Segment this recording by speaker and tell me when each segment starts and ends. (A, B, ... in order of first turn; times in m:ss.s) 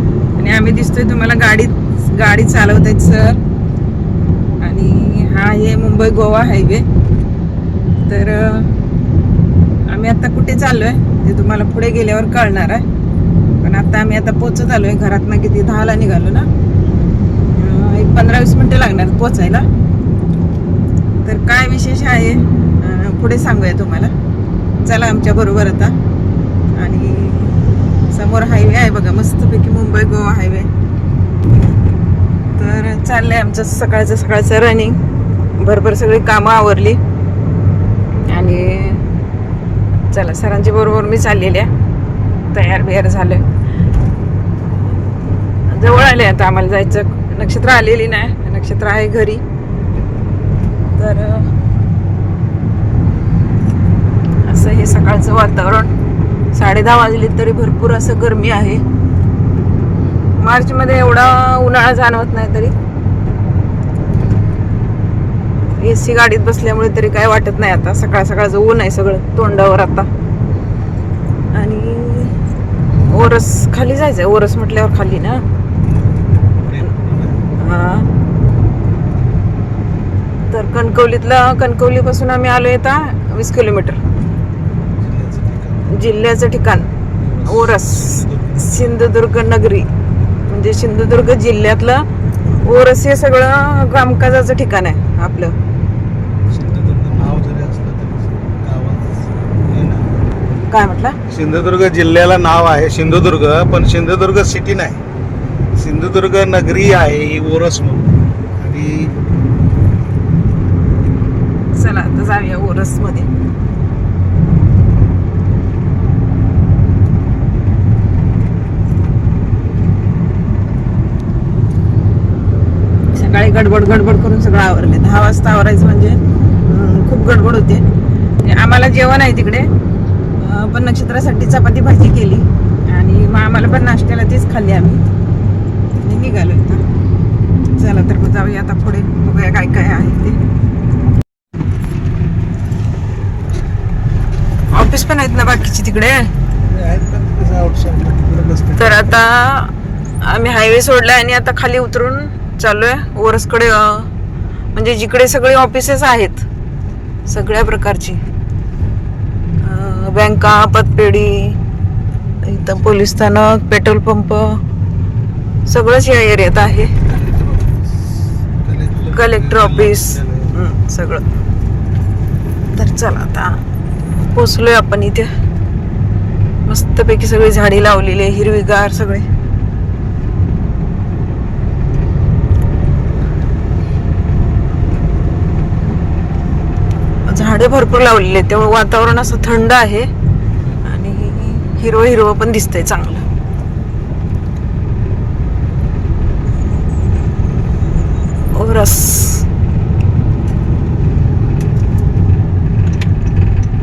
0:00.4-0:03.4 A
0:04.6-0:06.8 A
0:08.0-0:08.7 A
0:09.8-0:12.8 A
0:13.6-0:16.5 A
0:17.5-0:19.6 A
0:21.2-0:24.1 A
0:24.8-0:25.9 A
0:26.7-0:27.6 A
0:28.1-0:30.7 A
0:32.5-0:35.0 A
0:35.6-0:37.0 A
0:38.2-0:39.1 A
0:40.1-0:41.7 A
0:42.5-0:43.4 A
0:45.7-0:49.4 A
0:50.9-0:51.5 A
0:54.4-0:55.9 A
0:56.5-0:58.8 A
1:00.4-1:02.7 A
1:05.8-1:10.1 A
1:11.5-1:12.4 A
1:13.1-1:15.4 A
1:16.6-1:17.4 B
1:17.6-1:18.1 A
1:20.5-1:24.0 A
1:25.0-1:26.0 B
1:25.9-1:26.9 A
1:27.2-1:29.0 B
1:27.4-1:29.9 A
1:30.5-1:35.6 A
1:36.5-1:40.1 B
1:40.7-1:41.2 A
1:41.3-1:45.0 B
1:45.7-1:49.1 B
1:51.7-1:53.3 A
2:03.1-2:07.9 A
2:08.4-2:09.7 A
2:10.4-2:15.0 A
2:16.0-2:16.8 A
2:17.7-2:20.4 A
2:24.7-2:26.3 A
2:26.6-2:29.2 B
2:28.8-2:34.1 A
2:34.7-2:36.4 A
2:37.3-2:38.2 A
2:39.6-2:41.6 A
2:42.4-2:44.6 A
2:45.6-2:47.0 A
2:47.0-2:50.5 B
2:49.1-2:51.2 A
2:52.7-2:53.6 A
2:54.2-2:55.3 A
2:56.6-2:59.3 A
3:07.3-3:10.1 A
3:10.8-3:13.2 A
3:18.5-3:19.4 A